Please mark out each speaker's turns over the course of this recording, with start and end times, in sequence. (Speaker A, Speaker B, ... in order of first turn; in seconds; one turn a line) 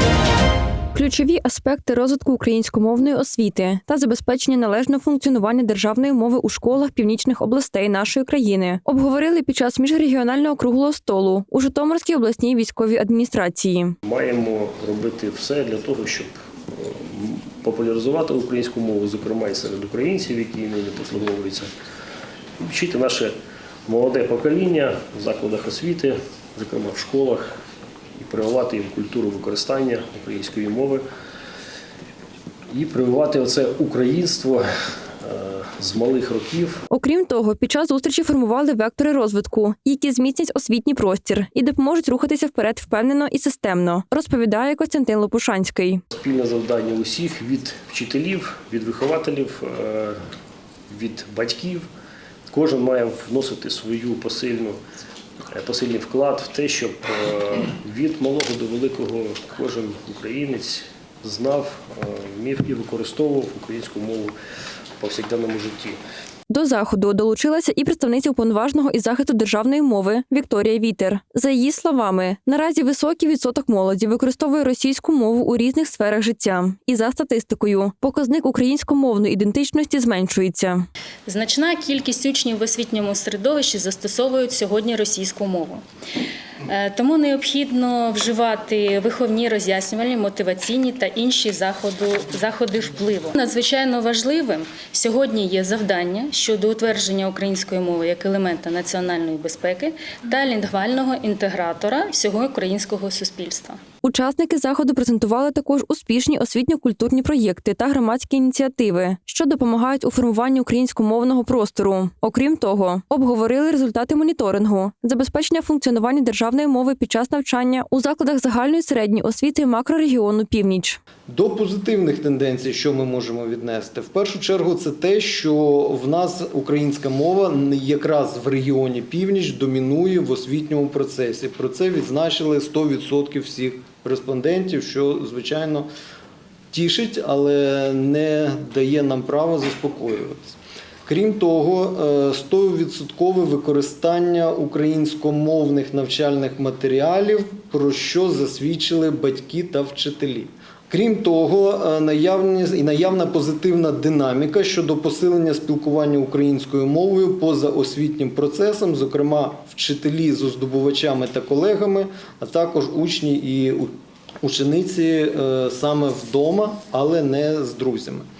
Speaker A: 0.9-14.0
Speaker B: 14.0-21.7
Speaker B: 22.6-23.3
Speaker B: 23.9-27.4
Speaker B: 28.1-31.0
Speaker B: 32.7-34.6
Speaker B: 35.2-36.8
Speaker A: 36.9-46.0
Speaker B: 46.1-50.2
Speaker B: 50.9-51.9
Speaker B: 52.5-54.8
Speaker B: 55.4-64.3
Speaker B: 65.0-66.0
Speaker A: 66.5-80.8
Speaker C: 81.2-85.8
Speaker C: 86.6-103.8
Speaker A: 104.0-121.0
Speaker D: 121.3-135.9
Speaker D: 136.7-140.5
Speaker D: 141.1-168.3